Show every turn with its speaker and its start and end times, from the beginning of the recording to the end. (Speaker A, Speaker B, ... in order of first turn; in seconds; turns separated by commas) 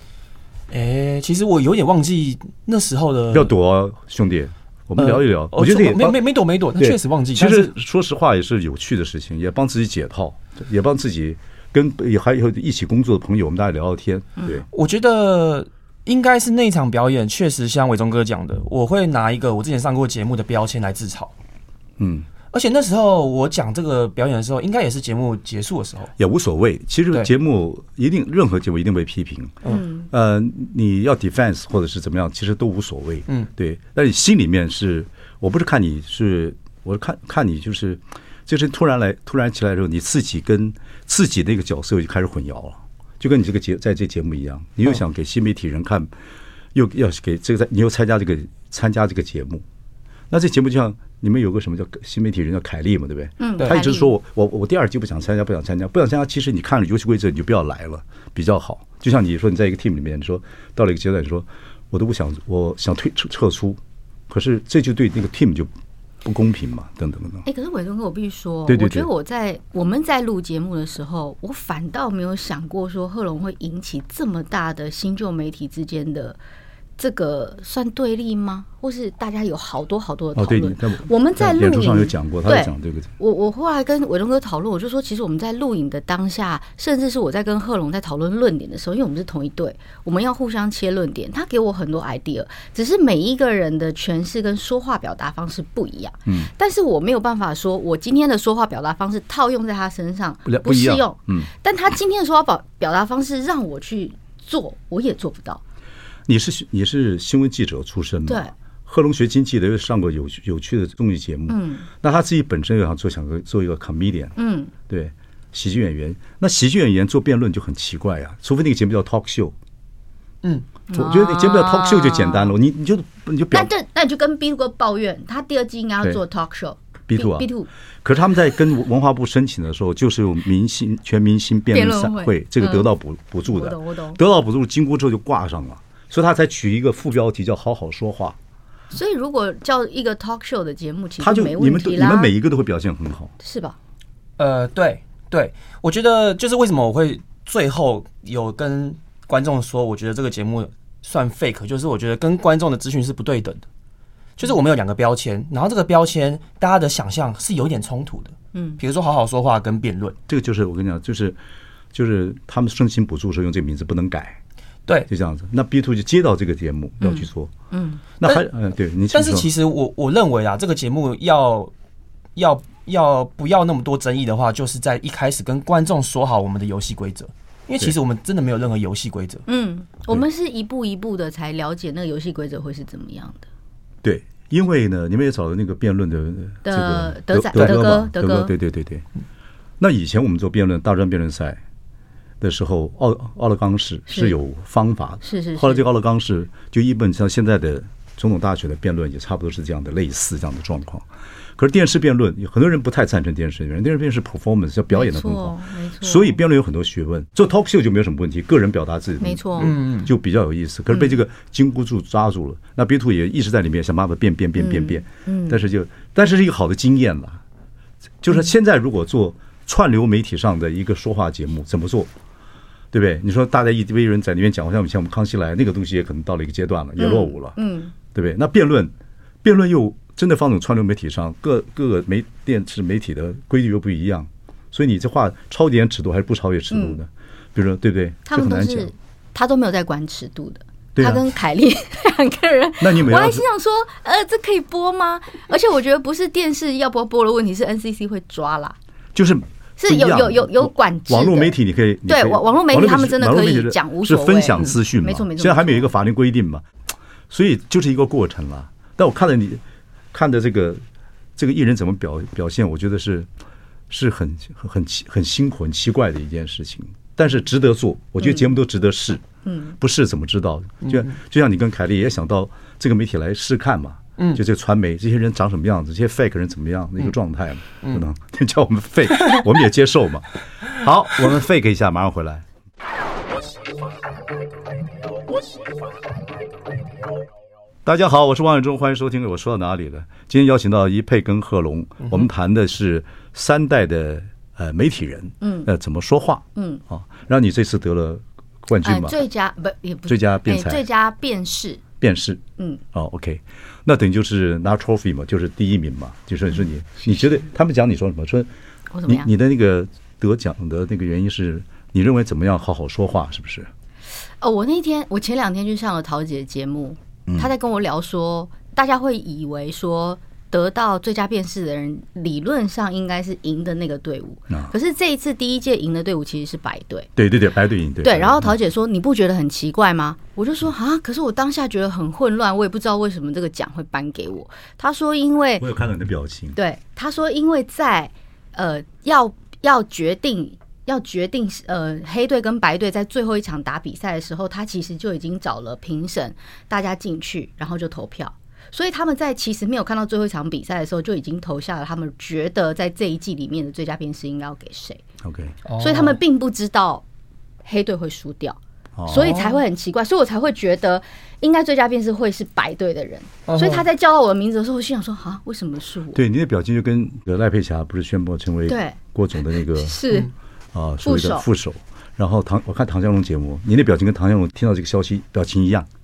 Speaker A: 0.7-3.5, Speaker B: 3.3-6.2, Speaker A: 5.0-7.7, Speaker B: 6.8-14.7, Speaker A: 14.7-21.3, Speaker B: 22.0-22.3, Speaker A: 22.5-26.1, Speaker B: 26.2-29.6, Speaker C: 29.7-30.1, Speaker B: 30.1-46.1, Speaker B: 46.7-49.6, Speaker B: 50.3-65.7, Speaker C: 53.4-54.1, Speaker B: 66.2-67.5, Speaker C: 67.5-76.4, Speaker B: 68.7-69.1, Speaker C: 77.0-105.6, Speaker B: 80.4-83.1, Speaker B: 100.5-101.5, Speaker B: 106.3-114.3, Speaker C: 108.3-108.5, Speaker C: 111.5-111.9, Speaker C: 114.4-114.7, Speaker B: 114.9-119.5, Speaker C: 120.9-122.5, Speaker B: 120.9-123.7, Speaker C: 123.5-127.7, Speaker B: 127.1-127.5, Speaker B: 128.0-138.4, Speaker C: 131.7-132.9, Speaker C: 133.4-134.2, Speaker C: 138.9-142.3, Speaker B: 141.2-143.3, Speaker C: 143.4-143.8, Speaker A: 144.4-153.6, Speaker A: 154.4-160.2, Speaker C: 158.5-158.8, Speaker B: 160.3-161.4, Speaker B: 161.9-164.4, Speaker B: 165.1-167.5, Speaker C: 167.0-168.0, Speaker B: 168.2-169.5, Speaker A: 169.1-171.7, Speaker A: 172.4-179.4, Speaker C: 179.5-183.5, Speaker B: 184.0-189.1, Speaker C: 186.7-188.5, Speaker A: 187.6-187.8, Speaker B: 189.8-191.6, Speaker B: 192.4-201.1, Speaker C: 194.1-194.3, Speaker C: 195.2-195.8, Speaker B: 201.6-217.4, Speaker C: 204.9-206.4, Speaker C: 209.2-209.7, Speaker A: 209.6-210.1, Speaker C: 214.6-215.6, Speaker B: 218.2-222.1, Speaker B: 222.9-227.6, Speaker C: 227.0-227.9, Speaker B: 228.1-238.9, Speaker C: 236.7-237.0, Speaker C: 238.3-248.8, Speaker B: 240.9-241.2, Speaker B: 242.8-243.4, Speaker B: 249.2-256.7, Speaker C: 249.8-251.6, Speaker C: 252.1-255.9, Speaker B: 257.3-260.8, Speaker B: 261.4-263.3, Speaker B: 263.9-269.2, Speaker C: 268.2-268.5, Speaker C: 269.4-269.8, Speaker B: 269.8-282.5, Speaker A: 270.8-271.1, Speaker B: 287.9-299.2, Speaker A: 292.0-292.3, Speaker C: 295.4-295.7, Speaker C: 296.6-296.8, Speaker C: 298.8-301.8, Speaker B: 300.1-300.8, Speaker B: 302.0-302.4, Speaker B: 302.9-308.5, Speaker C: 308.9-309.3, Speaker B: 309.1-313.7, Speaker C: 314.4-327.1, Speaker B: 327.2-328.5, Speaker C: 328.0-335.7, Speaker B: 335.6-336.6, Speaker C: 336.6-355.0, Speaker B: 355.2-355.6, Speaker A: 355.7-356.2, Speaker C: 355.8-357.0, Speaker C: 357.6-366.2, Speaker B: 359.0-359.4, Speaker A: 359.2-359.6, Speaker A: 363.5-363.9, Speaker B: 366.1-370.0, Speaker C: 368.7-369.0, Speaker C: 369.7-370.3, Speaker B: 370.7-375.9, Speaker C: 371.0-371.4